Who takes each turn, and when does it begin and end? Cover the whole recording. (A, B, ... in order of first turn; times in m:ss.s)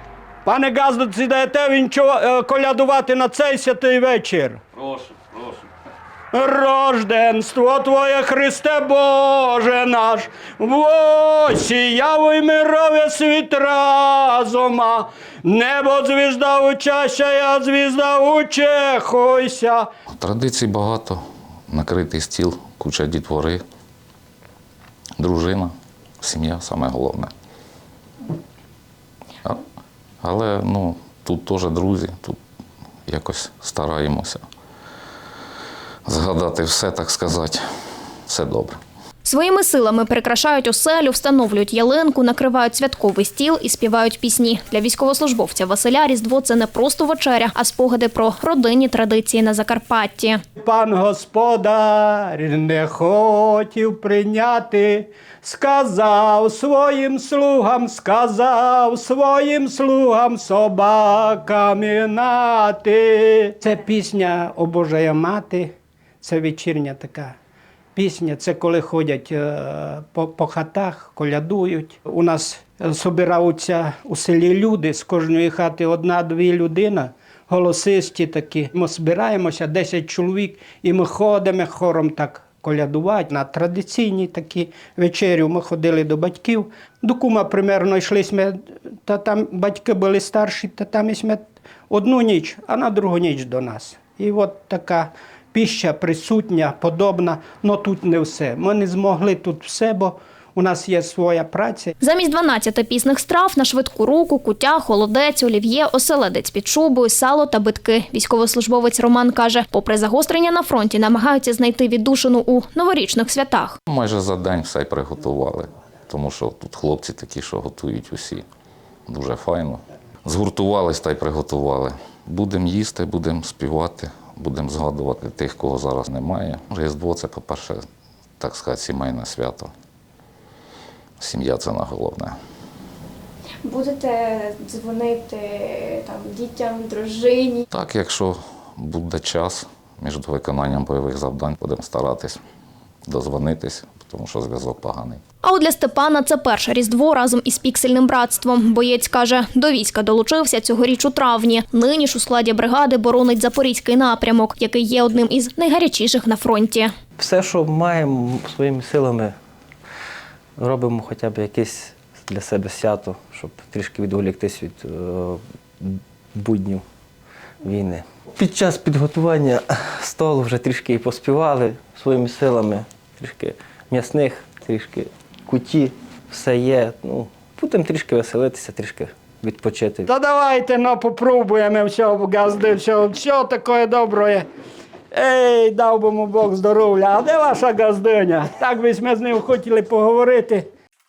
0:00.4-0:04.8 A
0:06.3-0:19.9 A
0:20.2-0:23.6 B
0:25.2-0:27.3 B
0:30.2-0:32.4 B
0:33.1-0:34.4 B
0:36.1-0:37.6 B
0:38.3-0:38.8 B
0:39.2-0:50.4 C
0:50.6-1:05.7 A
1:06.2-1:07.3 A
1:08.0-1:41.9 A
1:42.0-1:53.8 C
1:53.9-1:58.4 B
1:59.1-2:07.8 B
2:08.4-2:09.7 B
2:11.2-2:12.4 B
2:13.6-2:17.6 D
2:17.7-2:22.4 B
2:23.1-2:25.2 B
2:25.4-2:36.9 C
2:37.2-2:39.4 E
2:40.6-2:46.8 E
2:47.6-3:00.1 E
3:00.1-3:04.4 A
3:05.1-3:10.7 A